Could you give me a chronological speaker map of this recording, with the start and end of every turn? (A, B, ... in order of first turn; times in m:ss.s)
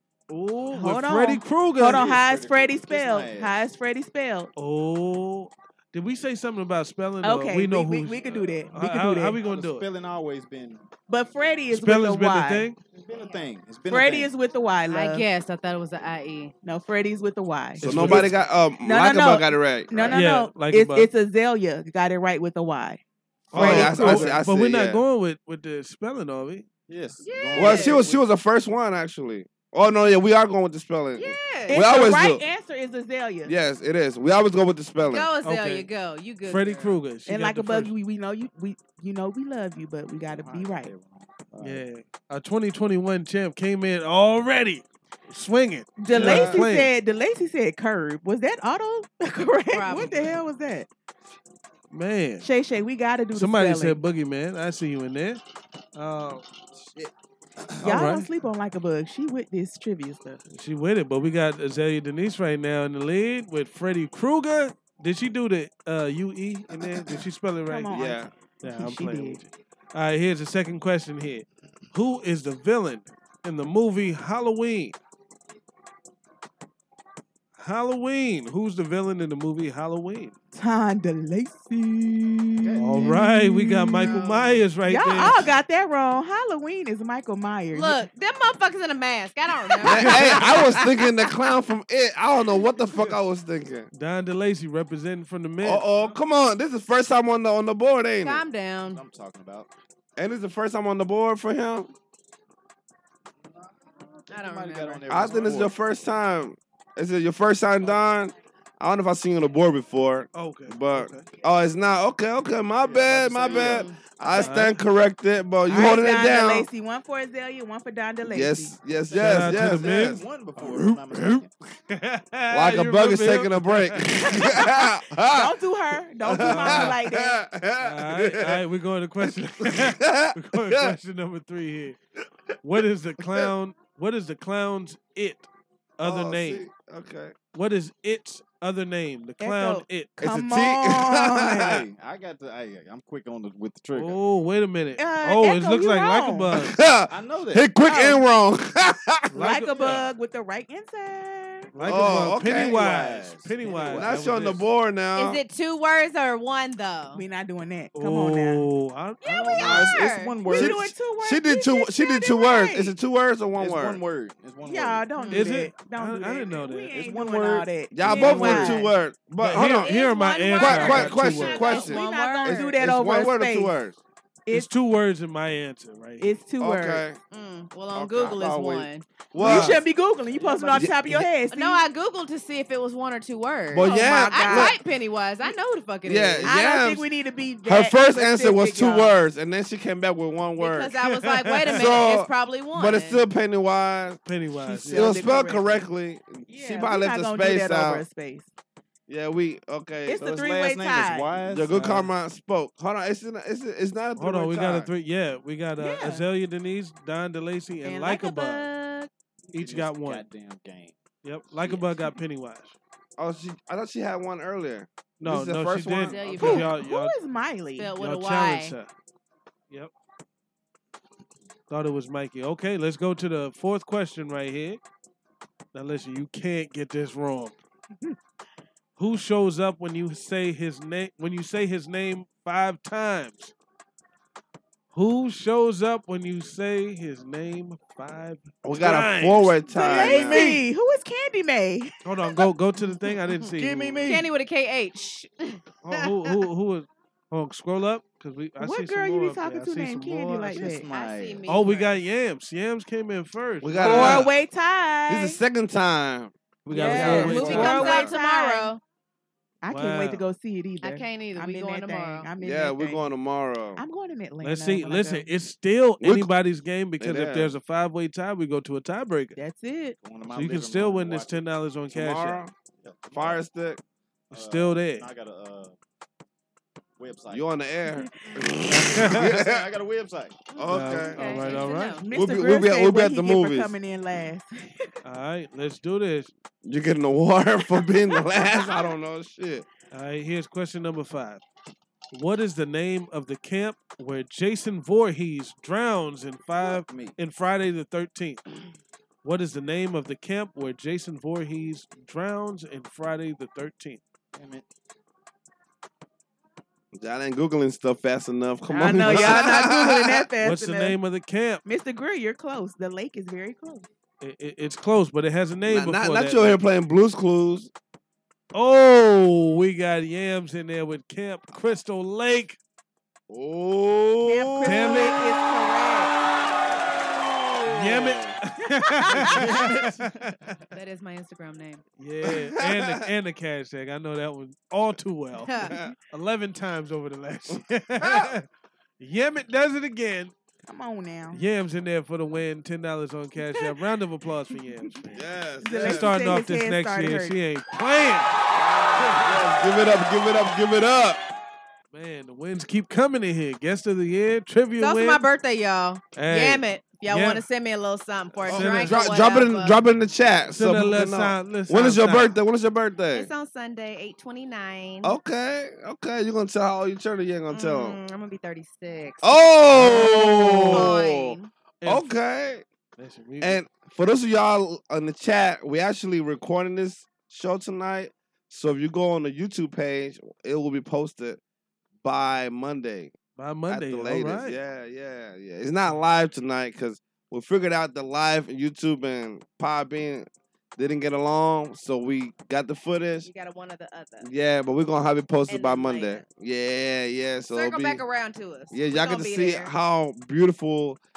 0:00.3-0:02.1 A
0:00.7-0:04.5 B
0:01.8-0:03.6 C
0:04.6-0:09.9 A
0:07.2-0:09.4 B
0:09.4-0:10.8 C
0:11.1-0:12.7 B
0:11.7-0:12.8 A
0:12.9-0:14.3 C
0:13.2-0:13.4 D
0:13.9-0:15.2 B
0:14.9-0:16.5 D
0:16.6-0:18.3 B
0:17.8-0:18.4 A
0:17.8-0:20.1 E
0:18.8-0:23.0 B
0:20.1-0:21.1 A
0:23.5-0:25.0 E
0:23.5-0:26.6 A
0:23.5-0:24.2 B
0:24.0-0:24.4 C
0:26.9-0:28.2 C
0:27.2-0:28.0 D
0:27.5-0:32.4 E
0:31.2-0:31.8 D
0:31.7-0:33.5 B
0:33.4-0:35.3 E
0:35.1-0:37.0 D
0:35.4-0:35.9 A
0:36.4-0:37.9 A
0:37.3-0:40.9 B
0:40.3-0:41.9 C
0:41.6-0:46.9 A
0:46.0-0:50.9 B
0:46.1-0:46.6 E
0:49.7-0:50.3 D
0:51.9-0:52.5 A
0:52.4-0:54.0 B
0:53.3-0:55.4 A
0:55.9-0:56.4 A
0:57.8-0:58.3 A
0:57.8-1:00.4 B
1:00.5-1:08.0 A
1:07.7-1:09.4 B
1:07.9-1:08.3 E
1:08.6-1:15.0 A
1:17.6-1:20.3 A
1:20.5-1:24.2 B
1:22.6-1:23.2 C
1:22.8-1:25.5 A
1:24.8-1:28.0 B
1:27.7-1:30.9 D
1:29.8-1:33.9 E
1:33.9-1:35.8 A
1:35.6-1:38.4 E
1:38.2-1:39.0 D
1:38.9-1:39.7 C
1:40.2-1:41.9 E
1:44.3-1:45.7 C
1:44.3-1:45.4 D
1:45.1-1:56.7 E
1:50.3-1:51.3 A
1:52.8-1:54.6 C
1:53.5-1:54.0 D
1:54.4-1:54.8 A
1:55.7-1:58.8 B
1:58.2-2:00.2 E
1:59.1-2:01.5 C
1:59.1-2:04.3 A
2:02.5-2:05.5 E
2:05.2-2:07.4 B
2:06.2-2:08.6 E
2:06.4-2:06.9 A
2:07.8-2:12.0 A
2:09.2-2:11.0 E
2:12.6-2:15.5 A
2:16.0-2:16.6 A
2:16.0-2:17.4 E
2:17.5-2:20.2 A
2:19.4-2:21.8 B
2:20.2-2:21.8 E
2:21.6-2:24.2 C
2:23.9-2:26.8 A
2:25.0-2:26.5 B
2:26.5-2:29.3 E
2:27.1-2:27.6 C
2:27.8-2:28.2 B
2:29.3-2:30.0 A
2:29.3-2:31.7 B
2:31.7-2:34.6 A
2:31.8-2:32.8 E
2:31.8-2:34.3 C
2:33.9-2:35.4 E
2:35.2-2:37.2 D
2:37.1-2:38.6 B
2:37.9-2:40.0 A
2:39.2-2:40.3 D
2:39.5-2:40.8 C
2:40.4-2:42.9 B
2:40.5-2:44.0 E
2:43.6-2:45.1 C
2:44.6-2:48.9 B
2:45.2-2:45.5 D
2:45.3-2:47.0 A
2:46.9-2:48.5 C
2:47.9-2:49.9 E
2:48.4-2:48.7 A
2:49.4-2:51.7 A
2:49.5-2:52.7 D
2:50.6-2:54.0 E
2:51.2-2:53.7 B
2:54.5-2:56.3 A
2:56.2-2:57.0 B
2:56.6-2:57.2 E
2:57.3-2:59.0 D
2:57.9-2:59.8 E
2:59.4-3:01.8 B
2:59.4-2:59.8 A
3:00.4-3:00.8 D
3:00.7-3:01.2 E
3:01.5-3:06.5 D
3:03.7-3:04.8 E
3:03.8-3:04.8 B
3:06.0-3:07.1 E
3:06.4-3:09.2 B
3:07.6-3:10.9 E
3:10.6-3:13.2 D
3:11.5-3:11.9 A
3:11.7-3:14.2 E
3:14.2-3:15.3 A
3:14.8-3:18.0 E
3:14.9-3:15.9 B
3:16.5-3:18.5 B
3:19.1-3:20.3 E
3:20.0-3:21.3 B
3:20.2-3:22.0 C
3:21.5-3:24.9 E
3:21.7-3:22.1 A
3:24.2-3:28.7 A
3:25.8-3:26.2 B
3:27.8-3:29.1 B
3:29.5-3:30.2 A
3:29.5-3:31.0 C
3:31.2-3:32.8 A
3:31.6-3:32.2 C
3:33.2-3:36.6 E
3:35.2-3:37.2 A
3:36.1-3:36.7 D
3:36.4-3:37.9 B
3:37.8-3:38.7 D
3:38.0-3:38.9 A
3:41.7-3:44.8 A
3:45.7-3:47.5 A
3:49.0-3:53.5 A
3:54.9-4:00.6 A
3:58.6-4:00.6 E
3:59.7-4:01.9 B
4:02.0-4:04.0 A
4:03.5-4:04.3 C
4:04.0-4:06.3 D
4:05.8-4:10.6 A
4:08.6-4:10.8 B
4:10.5-4:11.5 C
4:10.9-4:12.0 D
4:11.5-4:14.3 A
4:13.6-4:14.3 E
4:13.8-4:15.4 B
4:15.1-4:18.1 E
4:16.6-4:17.9 A
4:16.7-4:18.7 B
4:16.9-4:18.8 D
4:19.6-4:23.1 B
4:19.7-4:20.2 A
4:20.8-4:22.3 D
4:22.4-4:23.8 E
4:23.8-4:25.3 B
4:24.4-4:29.3 A
4:26.0-4:26.3 E
4:27.0-4:27.5 E
4:29.3-4:30.0 B
4:30.0-4:31.4 C
4:30.3-4:32.4 A
4:31.9-4:32.5 E
4:32.8-4:33.4 C
4:33.1-4:33.8 E
4:34.3-4:35.1 A
4:34.3-4:35.8 C
4:37.0-4:37.5 C
4:37.3-4:39.6 E
4:38.7-4:39.3 A
4:38.9-4:40.4 C
4:40.5-4:42.0 D
4:40.6-4:41.2 E
4:40.7-4:42.0 A
4:42.0-4:44.9 B
4:42.1-4:43.7 E
4:45.0-4:46.3 A
4:46.6-4:49.7 E
4:49.9-4:51.4 A
4:52.1-4:58.4 A
4:56.6-4:57.2 C
4:59.2-5:04.0 A
5:04.3-5:04.6 C
5:06.9-5:10.3 E
5:08.7-5:11.0 B
5:09.0-5:09.5 A
5:10.4-5:11.6 A
5:11.6-5:13.9 B
5:14.2-5:16.6 A
5:15.6-5:17.7 E
5:18.5-5:22.6 A
5:23.3-5:25.1 E
5:24.2-5:26.1 B
5:24.6-5:25.2 A
5:27.2-5:28.3 E
5:27.7-5:30.4 A
5:29.4-5:29.9 C
5:30.7-5:31.8 D
5:32.0-5:38.4 A
5:32.2-5:33.0 E
5:35.5-5:35.7 D
5:35.6-5:35.9 E
5:38.0-5:38.3 E
5:39.0-5:40.3 A
5:40.6-5:41.4 B
5:41.3-5:45.2 A
5:45.1-5:46.1 E
5:45.6-5:47.4 B
5:45.8-5:48.4 A
5:48.5-5:51.2 E
5:49.0-5:49.3 A
5:51.9-5:55.2 A
5:54.8-5:59.8 D
5:56.1-5:57.4 A
5:58.4-5:59.0 A
5:58.5-6:03.3 E
6:00.5-6:02.4 A
6:03.1-6:05.1 D
6:05.0-6:08.0 E
6:07.5-6:11.5 D
6:09.2-6:12.6 E
6:10.6-6:10.9 A
6:11.8-6:12.1 A
6:13.0-6:13.6 A
6:13.4-6:21.4 E
6:22.0-6:23.1 E
6:23.4-6:24.6 A
6:23.7-6:33.3 E
6:33.2-6:34.3 D
6:34.2-6:38.0 E
6:35.5-6:36.2 D
6:37.5-6:39.7 D
6:38.7-6:41.0 E